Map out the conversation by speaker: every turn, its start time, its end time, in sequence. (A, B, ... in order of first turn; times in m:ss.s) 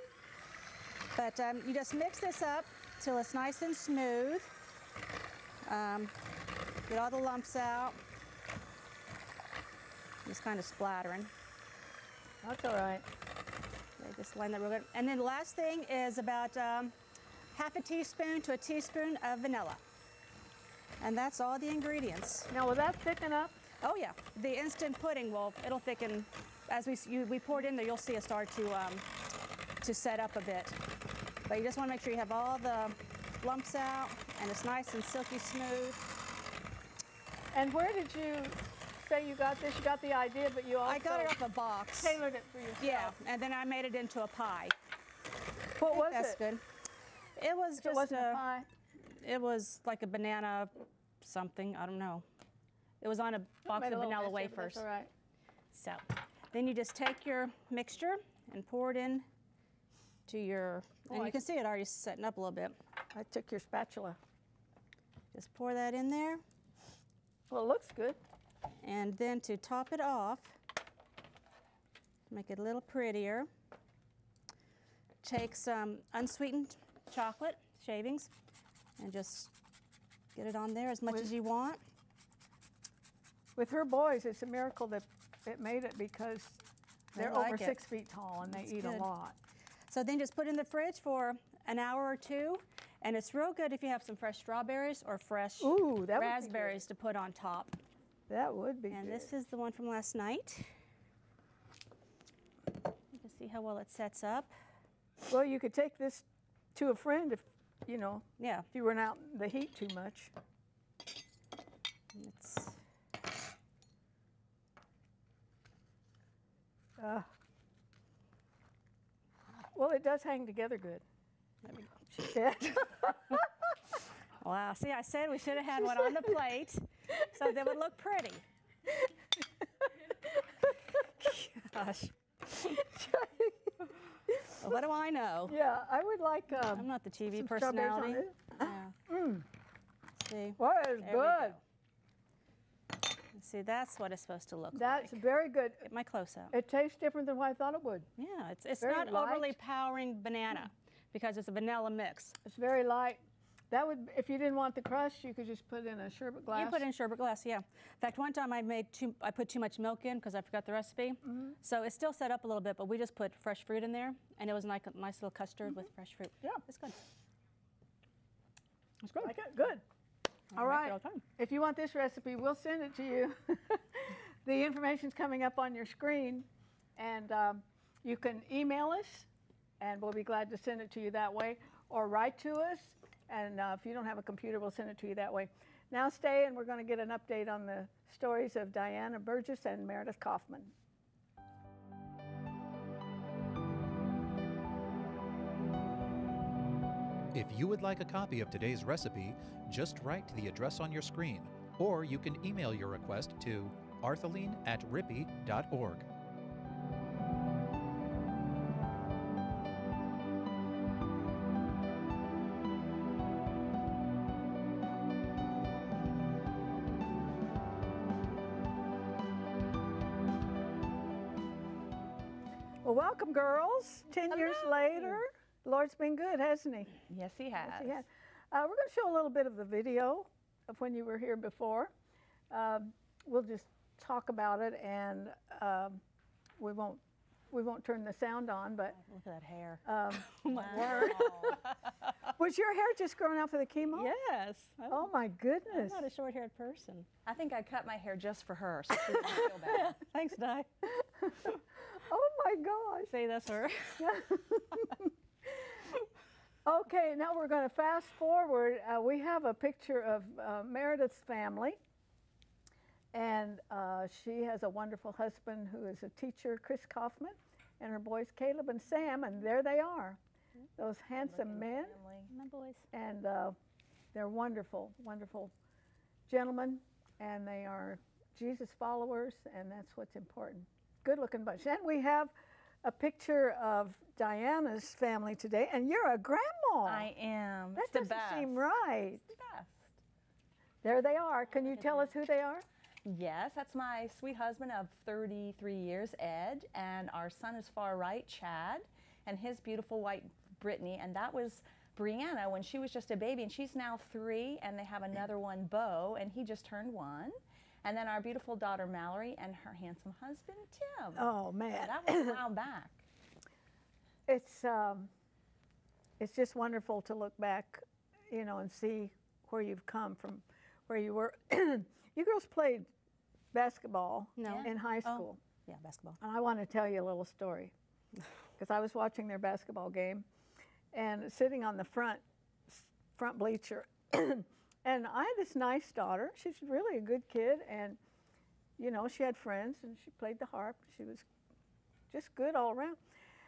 0:01.1-0:04.5 A
0:05.6-0:06.2 A
0:06.9-0:08.0 A
0:10.2-0:11.3 A
0:12.4-0:13.0 B
0:14.0-0:16.9 A
0:17.5-0:19.8 A
0:21.0-0:22.5 A
0:22.5-0:23.6 B
0:23.8-0:29.1 A
0:29.8-0:30.8 A
0:31.5-0:36.1 A
0:37.5-0:41.4 B
0:40.8-0:42.2 A
0:41.9-0:43.2 B
0:42.8-0:44.8 A
0:45.8-0:46.4 B
0:45.8-0:46.6 A
0:47.4-0:48.4 A
0:47.8-0:48.7 B
0:49.0-0:52.2 A
0:53.0-0:54.8 A
0:53.7-0:55.1 B
0:55.7-0:59.3 A
1:00.3-1:02.8 A
1:01.1-1:01.4 B
1:03.1-1:04.2 B
1:05.3-1:06.4 A
1:07.5-1:08.2 B
1:08.8-1:10.6 A
1:12.3-1:13.5 A
1:15.2-1:18.3 A
1:19.0-1:19.5 A
1:20.3-1:21.8 A
1:23.6-1:26.6 B
1:27.2-1:27.8 A
1:27.2-1:29.4 B
1:28.6-1:29.1 A
1:29.9-1:37.8 A
1:35.6-1:36.8 B
1:38.3-1:39.3 B
1:38.9-1:40.7 A
1:43.1-1:44.5 A
1:45.3-1:50.3 B
1:48.4-1:48.7 A
1:52.1-1:52.8 A
1:57.0-1:57.3 B
1:59.7-2:01.0 B
2:01.6-2:02.0 A
2:02.2-2:03.5 B
2:04.4-2:08.4 A
2:05.8-2:06.3 B
2:10.0-2:11.5 B
2:11.5-2:12.2 A
2:12.6-2:14.6 B
2:14.5-2:15.6 A
2:15.5-2:19.5 B
2:16.7-2:19.0 A
2:20.3-2:21.6 A
2:20.6-2:21.6 B
2:23.3-2:25.2 A
2:24.7-2:25.8 B
2:25.8-2:26.5 A
2:26.5-2:28.1 B
2:28.2-2:32.4 A
2:28.8-2:29.6 B
2:32.4-2:36.9 B
2:36.5-2:47.0 A
2:49.0-2:49.3 A
2:49.2-2:49.8 B
2:50.5-2:51.2 A
2:50.6-2:59.3 B
2:59.8-3:10.7 B
3:17.3-3:26.1 C
3:42.8-3:47.0 B
3:47.1-3:48.0 D
3:47.6-3:51.9 B
3:52.5-3:56.0 B
3:56.6-3:59.0 B
3:59.0-4:01.6 A
3:59.8-4:01.5 B
4:00.5-4:01.7 D
4:02.4-4:04.1 B
4:03.9-4:05.1 A
4:04.9-4:06.0 B
4:05.7-4:07.1 A
4:07.3-4:10.0 D
4:08.9-4:10.7 A
4:10.8-4:13.1 B
4:13.1-4:14.2 A
4:14.0-4:15.9 B
4:16.6-4:21.8 B
4:23.1-4:30.2 B
4:30.8-4:32.0 B
4:31.2-4:32.3 D
4:32.3-4:32.8 A
4:32.9-4:33.6 B
4:34.1-4:35.5 B
4:36.3-4:42.3 B
4:42.8-4:47.1 B
4:46.8-4:50.0 D
4:47.8-4:49.2 B
4:50.8-4:52.6 B
4:53.0-5:13.0 D
5:11.2-5:12.4 B
5:14.3-5:15.1 B
5:16.2-5:22.9 B
5:23.5-5:25.4 B
5:24.4-5:26.2 A
5:24.4-5:24.7 D
5:26.2-5:27.7 B
5:28.6-5:30.3 B
5:30.9-5:38.0 B
5:38.8-5:41.3 B
5:42.1-5:43.0 B